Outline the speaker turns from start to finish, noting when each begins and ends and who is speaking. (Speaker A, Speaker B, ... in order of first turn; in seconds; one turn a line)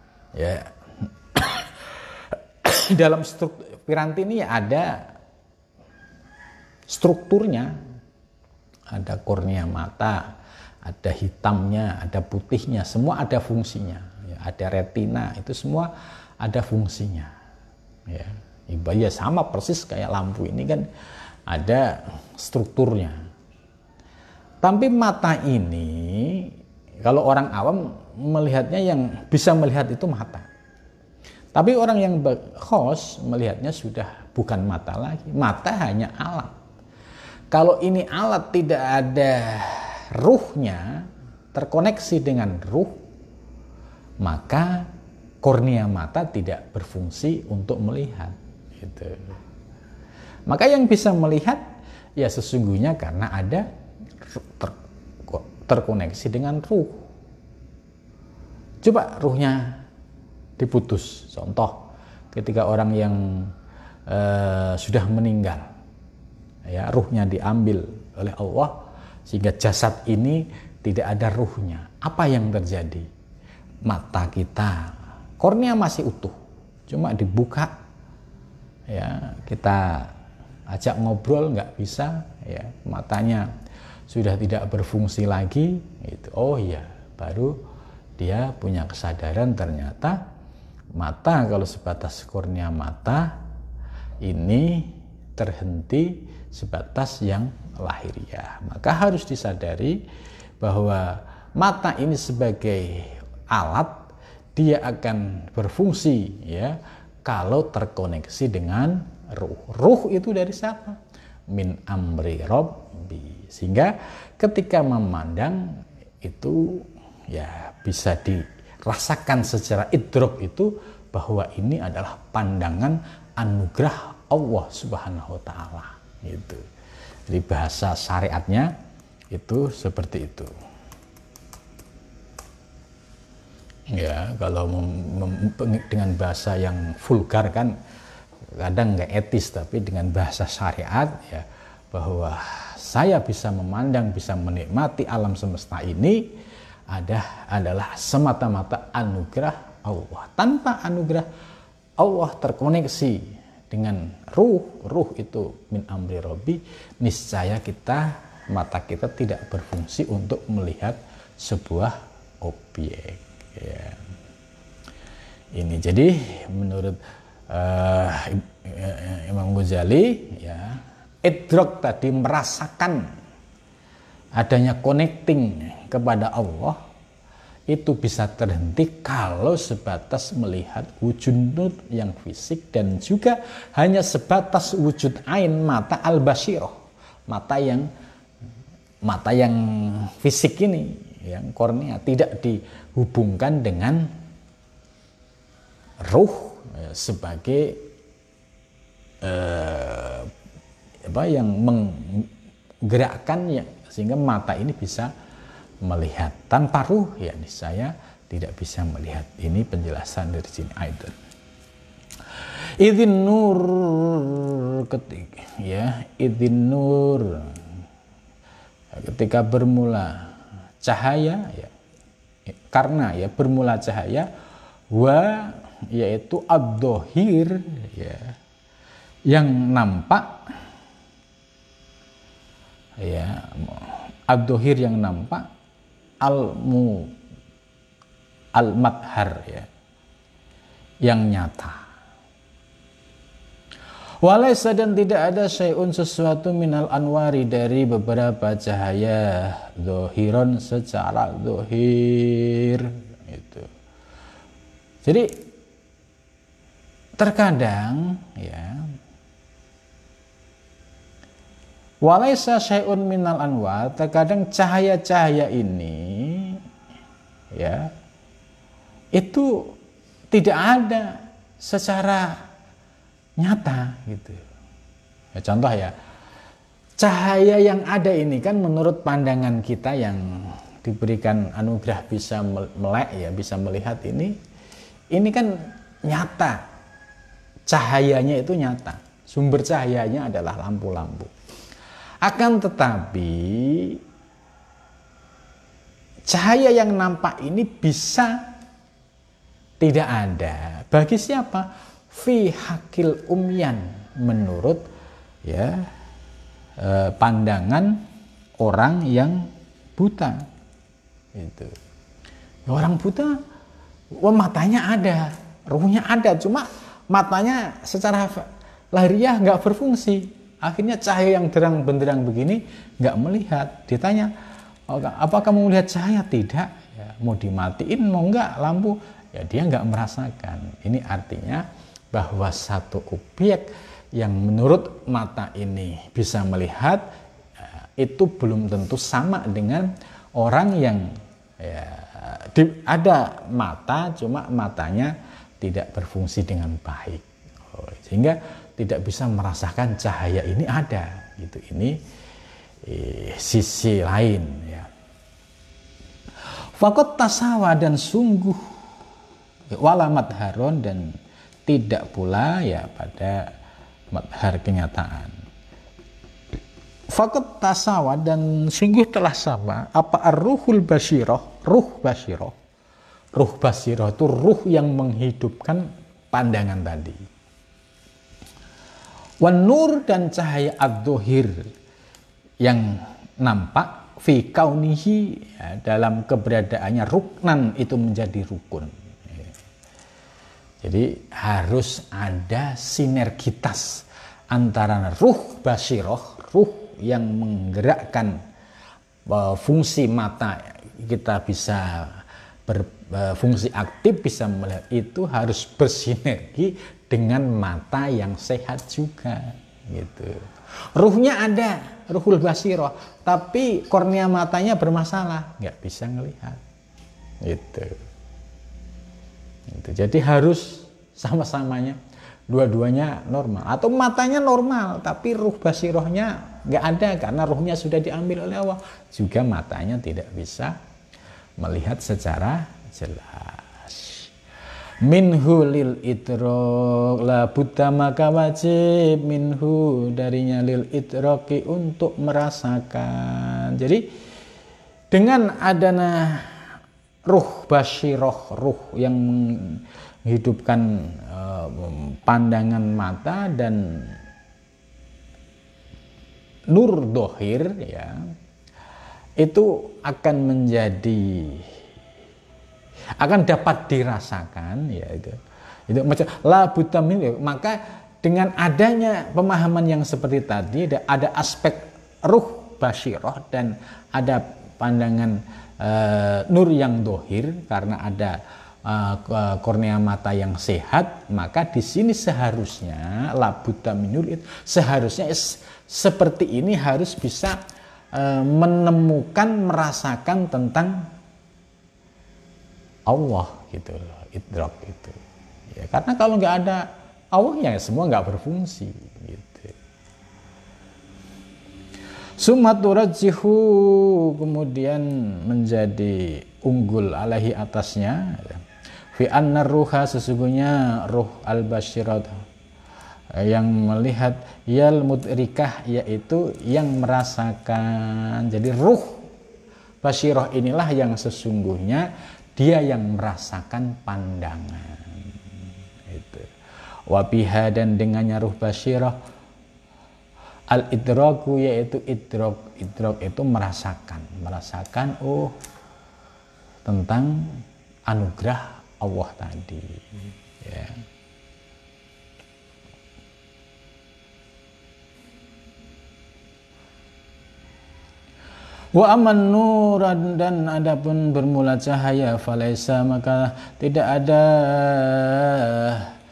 Speaker A: 0.3-0.7
Speaker A: 1.3-5.1
Speaker A: 6.9-7.8
Speaker A: 8.9-10.3
Speaker A: 10.8-15.9
Speaker A: 16.4-17.3
Speaker A: 18.1-20.9
Speaker A: 21.5-23.2
Speaker A: 24.6-26.5
Speaker A: 27.1-30.5
Speaker A: 31.5-36.5
Speaker A: 37.5-43.0
Speaker A: 44.2-44.9
Speaker A: 45.4-49.4
Speaker A: 50.5-51.6
Speaker A: 52.2-53.7
Speaker A: 54.4-54.8
Speaker A: 55.3-57.0
Speaker A: 58.8-59.8
Speaker A: 60.6-61.8
Speaker A: 62.3-63.5
Speaker A: 64.1-65.7
Speaker A: 66.7-68.8
Speaker A: 69.3-73.1
Speaker A: 73.9-76.4
Speaker A: 76.9-77.7
Speaker A: 78.9-80.1
Speaker A: 80.7-83.5
Speaker A: 84.1-87.6
Speaker A: 88.2-90.2
Speaker A: 91.0-93.3
Speaker A: 94.2-100.0
Speaker A: 100.6-104.0
Speaker A: 104.6-111.0
Speaker A: 111.5-126.6
Speaker A: 127.3-128.7
Speaker A: 129.3-130.5
Speaker A: 133.9-137.7
Speaker A: 138.6-146.2
Speaker A: 146.9-151.3
Speaker A: 152.0-164.0
Speaker A: 165.6-173.0
Speaker A: 174.4-176.8
Speaker A: 177.7-187.9
Speaker A: 189.1-194.1
Speaker A: 196.1-197.8
Speaker A: 199.2-200.3
Speaker A: 201.1-202.3
Speaker A: 202.9-205.1
Speaker A: 205.8-211.2
Speaker A: 212.8-217.6
Speaker A: 218.9-221.7
Speaker A: 222.7-224.3
Speaker A: 224.9-228.4
Speaker A: 229.3-230.4
Speaker A: 233.0-235.5
Speaker A: 236.2-237.1
Speaker A: 238.6-239.7
Speaker A: 241.0-241.8
Speaker A: 244.2-253.7
Speaker A: 255.0-255.4
Speaker A: 257.2-258.9
Speaker A: 262.0-266.6
Speaker A: 267.5-267.9
Speaker A: 269.1-269.7
Speaker A: 270.3-272.4
Speaker A: 273.4-274.4
Speaker A: 275.4-275.9
Speaker A: 277.0-284.4
Speaker A: 285.1-286.6
Speaker A: 287.7-291.3
Speaker A: 292.2-294.0
Speaker A: 296.3-298.4
Speaker A: 299.8-304.8
Speaker A: 305.4-305.8
Speaker A: 306.8-308.0
Speaker A: 308.6-310.5
Speaker A: 311.4-311.8
Speaker A: 312.7-313.4
Speaker A: 314.2-324.3
Speaker A: 324.9-337.0
Speaker A: 338.0-341.1
Speaker A: 341.6-352.0
Speaker A: 352.8-354.9
Speaker A: 356.8-358.7
Speaker A: 359.8-361.2
Speaker A: 361.7-363.5
Speaker A: 364.1-365.3
Speaker A: 367.1-372.6
Speaker A: 373.3-377.2
Speaker A: 379.4-381.7
Speaker A: 382.6-389.5
Speaker A: 390.8-398.4
Speaker A: 399.3-416.6
Speaker A: 417.4-418.0
Speaker A: 419.7-422.0
Speaker A: 422.5-430.8
Speaker A: 431.6-434.3
Speaker A: 435.0-444.1
Speaker A: 445.1-446.6
Speaker A: 447.3-454.1
Speaker A: 456.7-458.3
Speaker A: 459.4-461.7
Speaker A: 463.2-465.4
Speaker A: 465.9-487.6
Speaker A: 488.1-491.1
Speaker A: 493.1-495.2
Speaker A: 495.7-499.7
Speaker A: 502.4-512.4
Speaker A: 513.3-519.3
Speaker A: 520.0-522.1
Speaker A: 522.6-525.4
Speaker A: 526.1-526.5
Speaker A: 527.1-529.2
Speaker A: 530.7-535.6
Speaker A: 536.9-541.0
Speaker A: 548.9-556.1